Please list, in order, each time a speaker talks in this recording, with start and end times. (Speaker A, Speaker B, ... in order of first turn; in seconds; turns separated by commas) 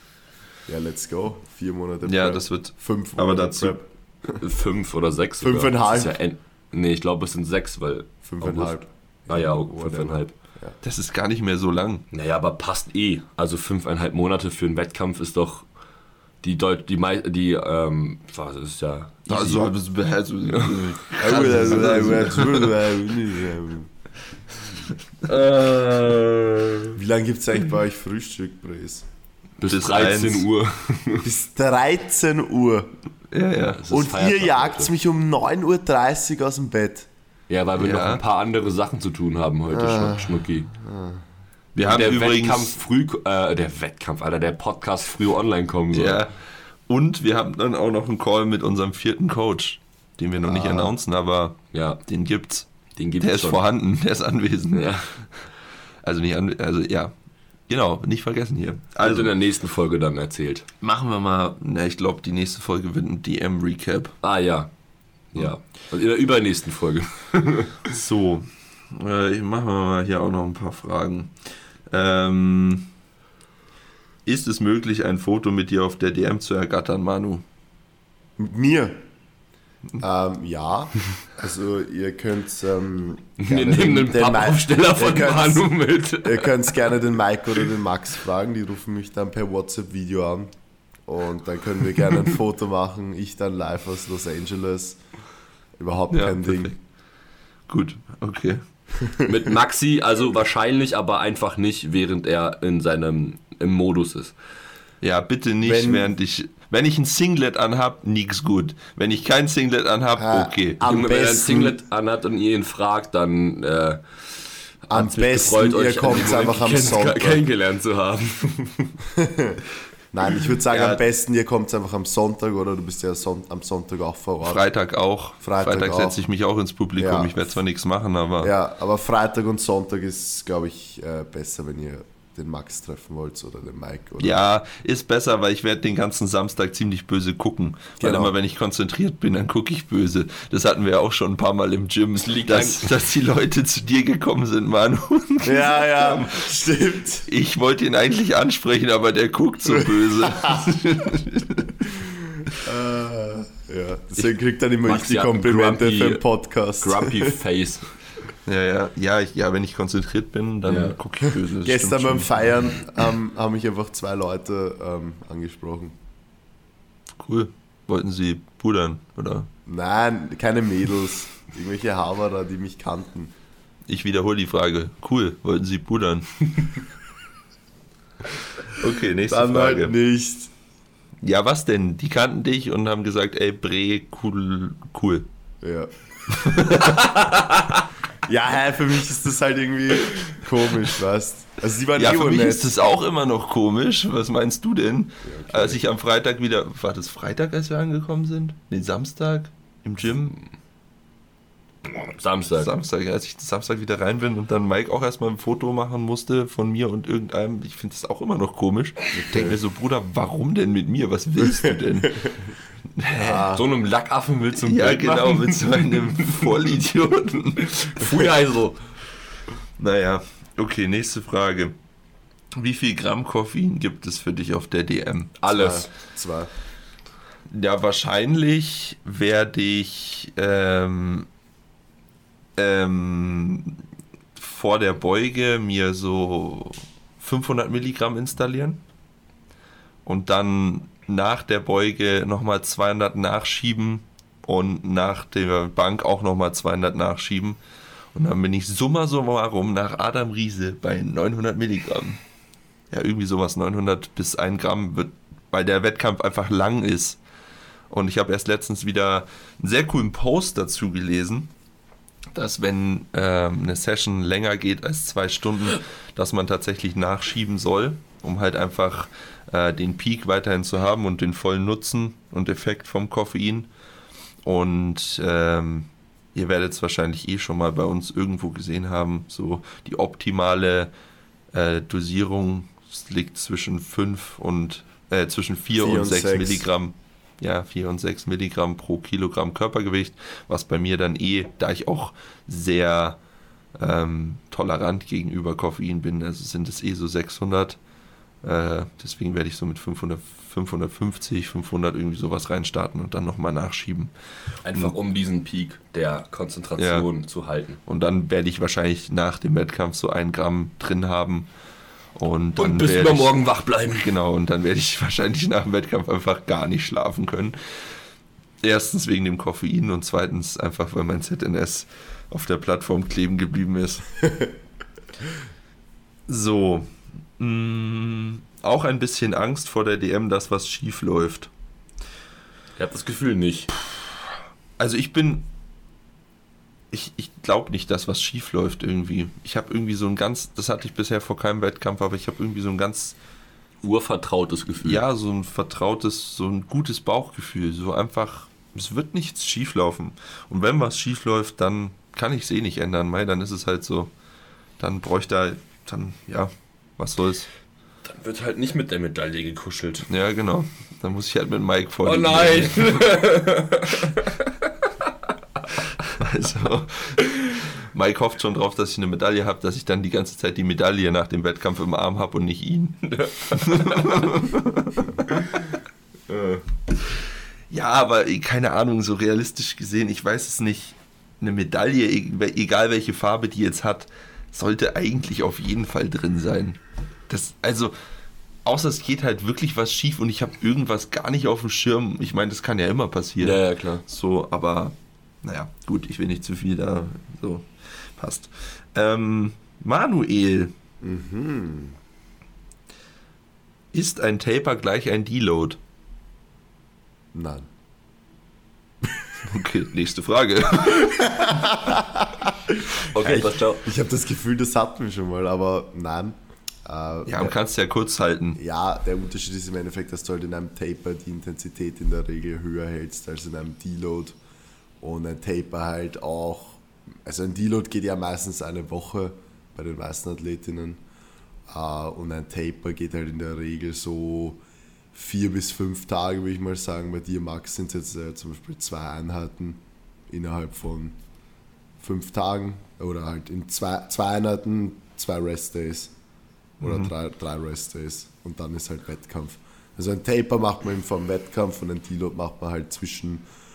Speaker A: 0.7-4.4, Speaker B: 2.0-3.8, Speaker C: 4.4-10.3, Speaker A: 5.4-6.2, Speaker A: 8.2-10.8, Speaker B: 10.8-12.0, Speaker C: 12.1-15.7, Speaker C: 16.4-19.7, Speaker B: 19.3-22.7, Speaker C: 20.5-22.7, Speaker A: 21.2-23.9, Speaker C: 25.2-26.9, Speaker A: 26.9-29.0, Speaker C: 29.6-31.3, Speaker B: 29.6-30.5, Speaker A: 31.2-33.0, Speaker B: 33.3-33.8, Speaker C: 33.7-34.9, Speaker A: 33.9-37.1, Speaker C: 37.5-40.7, Speaker B: 37.8-38.2, Speaker A: 39.7-41.2, Speaker B: 41.7-42.7, Speaker C: 41.8-46.3, Speaker B: 45.9-52.7, Speaker A: 50.4-50.9, Speaker C: 51.7-52.0, Speaker C: 53.0-53.6, Speaker B: 53.2-55.5, Speaker C: 54.7-55.1, Speaker B: 56.0-57.1, Speaker B: 57.7-59.3, Speaker C: 59.0-60.6, Speaker B: 60.8-64.1, Speaker C: 64.2-64.7, Speaker C: 65.3-67.8, Speaker B: 67.8-71.3, Speaker B: 71.9-72.9, Speaker B: 74.2-77.4, Speaker A: 78.4-79.0, Speaker A: 80.0-85.7, Speaker C: 83.4-86.7, Speaker A: 86.2-90.5, Speaker A: 91.0-95.0, Speaker A: 95.8-96.7, Speaker B: 96.1-96.8, Speaker B: 97.7-98.6, Speaker C: 99.2-104.3, Speaker B: 105.0-110.8, Speaker A: 105.6-106.1, Speaker A: 110.2-111.8, Speaker C: 110.8-118.9, Speaker A: 114.9-117.4, Speaker A: 119.2-119.6, Speaker A: 120.1-124.7, Speaker B: 120.7-121.0, Speaker B: 124.4-128.5, Speaker A: 125.4-126.2, Speaker A: 127.0-127.6, Speaker A: 128.4-134.4, Speaker B: 134.2-146.5, Speaker A: 138.0-138.3, Speaker C: 142.2-142.9, Speaker A: 145.4-147.3, Speaker B: 147.3-151.9, Speaker A: 149.8-150.6, Speaker A: 152.0-157.4, Speaker C: 154.8-156.2, Speaker C: 156.8-157.8, Speaker B: 158.4-162.4, Speaker C: 160.6-161.0, Speaker A: 161.2-165.9, Speaker B: 167.2-169.5, Speaker A: 169.7-173.3, Speaker B: 173.9-176.5, Speaker B: 178.8-179.9, Speaker A: 179.3-180.5, Speaker B: 181.2-185.3, Speaker A: 185.6-186.8, Speaker B: 186.4-187.0, Speaker C: 186.8-187.9, Speaker A: 188.2-192.8, Speaker B: 191.9-200.4, Speaker A: 195.2-195.8, Speaker C: 201.8-202.7, Speaker B: 202.6-212.3, Speaker A: 209.2-209.6, Speaker B: 212.9-213.5, Speaker A: 213.2-213.7, Speaker C: 213.5-216.4, Speaker B: 214.6-218.3, Speaker C: 217.7-218.8, Speaker B: 219.8-221.8, Speaker B: 222.5-225.3, Speaker C: 225.4-225.9, Speaker A: 225.5-226.5, Speaker B: 227.5-231.3, Speaker B: 232.6-233.8, Speaker B: 234.3-238.8, Speaker B: 240.0-247.6, Speaker B: 248.1-252.2, Speaker B: 252.9-257.2, Speaker B: 257.9-261.5, Speaker B: 262.3-273.7, Speaker B: 274.4-280.9, Speaker B: 281.5-293.2, Speaker A: 285.8-286.6, Speaker B: 293.8-297.8, Speaker B: 298.4-304.1, Speaker C: 304.6-307.8, Speaker B: 304.7-304.9, Speaker B: 306.8-307.1, Speaker B: 307.8-311.5, Speaker B: 312.1-313.4, Speaker C: 312.6-314.1, Speaker B: 313.9-318.0, Speaker B: 318.6-324.1, Speaker B: 326.3-331.5, Speaker C: 332.8-333.7, Speaker B: 334.8-335.5, Speaker B: 336.9-343.1, Speaker C: 343.8-345.0, Speaker B: 344.8-354.1, Speaker B: 354.8-357.5, Speaker C: 358.0-360.1, Speaker B: 360.1-363.2, Speaker C: 362.0-364.5, Speaker B: 366.1-375.6, Speaker C: 373.0-374.1, Speaker C: 376.3-376.6, Speaker B: 377.7-387.9, Speaker B: 388.6-400.7, Speaker C: 393.4-394.0, Speaker A: 401.0-402.0, Speaker B: 403.9-405.8, Speaker A: 407.3-407.7, Speaker B: 409.4-411.5, Speaker A: 410.9-417.5, Speaker C: 413.1-413.9, Speaker B: 417.3-418.6, Speaker A: 418.6-424.3, Speaker A: 425.0-431.0, Speaker A: 431.7-434.6, Speaker A: 435.1-441.1, Speaker A: 442.0-446.1, Speaker B: 446.8-447.1, Speaker A: 446.8-453.4